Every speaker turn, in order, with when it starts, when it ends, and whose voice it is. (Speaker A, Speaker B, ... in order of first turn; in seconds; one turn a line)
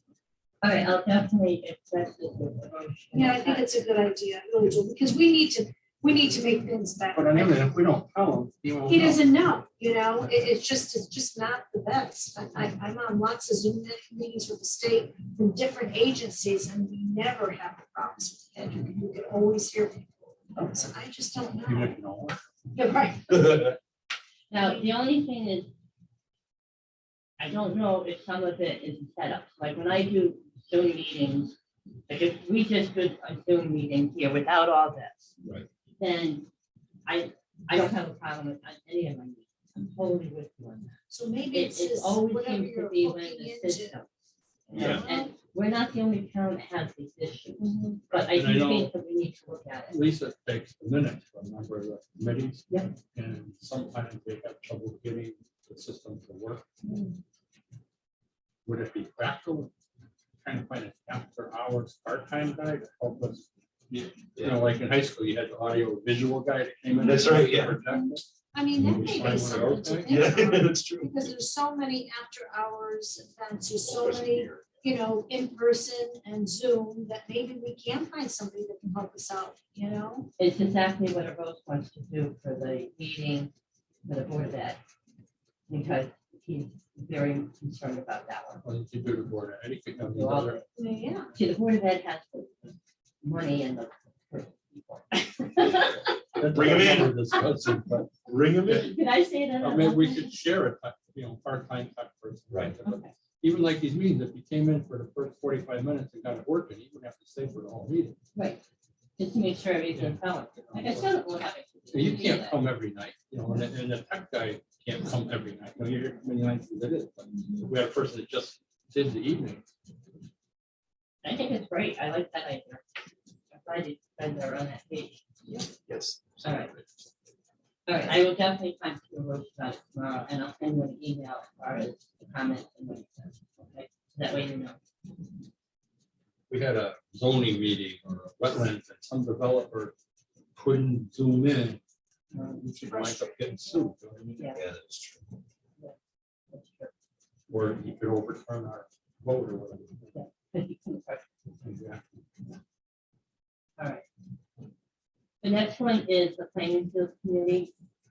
Speaker A: 0.6-3.7
Speaker B: 3.1-7.6
Speaker C: 7.1-9.2
Speaker B: 8.9-21.9
Speaker A: 20.6-20.9
Speaker C: 21.6-22.4
Speaker B: 22.7-23.7
Speaker D: 23.3-23.7
Speaker A: 24.5-25.7
Speaker B: 24.6-24.9
Speaker A: 27.4-31.6
Speaker A: 32.1-35.3
Speaker D: 35.4-35.7
Speaker A: 36.0-36.5
Speaker A: 37.0-41.0
Speaker B: 41.1-44.0
Speaker A: 41.5-44.1
Speaker B: 44.7-45.3
Speaker A: 44.7-50.1
Speaker D: 44.7-45.0
Speaker B: 47.6-48.0
Speaker C: 48.3-48.9
Speaker C: 49.9-56.6
Speaker B: 56.8-57.1
Speaker C: 58.6-59.7
Speaker C: 60.4-68.2
Speaker D: 64.3-64.7
Speaker D: 67.0-67.8
Speaker B: 68.5-80.3
Speaker C: 68.8-70.2
Speaker D: 69.2-69.5
Speaker D: 70.0-71.2
Speaker D: 73.8-74.8
Speaker A: 80.4-83.5
Speaker A: 84.0-84.8
Speaker A: 85.7-88.6
Speaker C: 88.6-90.6
Speaker A: 89.9-90.6
Speaker B: 90.8-91.3
Speaker A: 91.3-97.3
Speaker C: 96.3-98.1
Speaker D: 96.4-97.2
Speaker D: 98.3-98.9
Speaker C: 98.7-98.9
Speaker A: 98.7-100.4
Speaker C: 99.6-108.2
Speaker D: 102.5-102.8
Speaker A: 102.8-103.1
Speaker A: 108.3-108.6
Speaker A: 109.2-112.6
Speaker C: 109.9-111.1
Speaker C: 111.9-119.7
Speaker A: 121.2-122.8
Speaker A: 123.5-125.2
Speaker D: 125.9-126.4
Speaker A: 126.4-126.7
Speaker A: 127.9-134.8
Speaker C: 136.5-139.9
Speaker C: 140.6-141.8
Speaker A: 142.3-142.6
Speaker C: 142.6-144.6
Speaker B: 142.8-143.9
Speaker A: 144.4-144.6
Speaker D: 144.5-145.4
Speaker A: 146.5-146.9
Speaker C: 147.5-150.1
Speaker A: 150.1-151.5
Speaker C: 151.6-152.0
Speaker A: 153.8-154.1
Speaker A: 155.4-157.7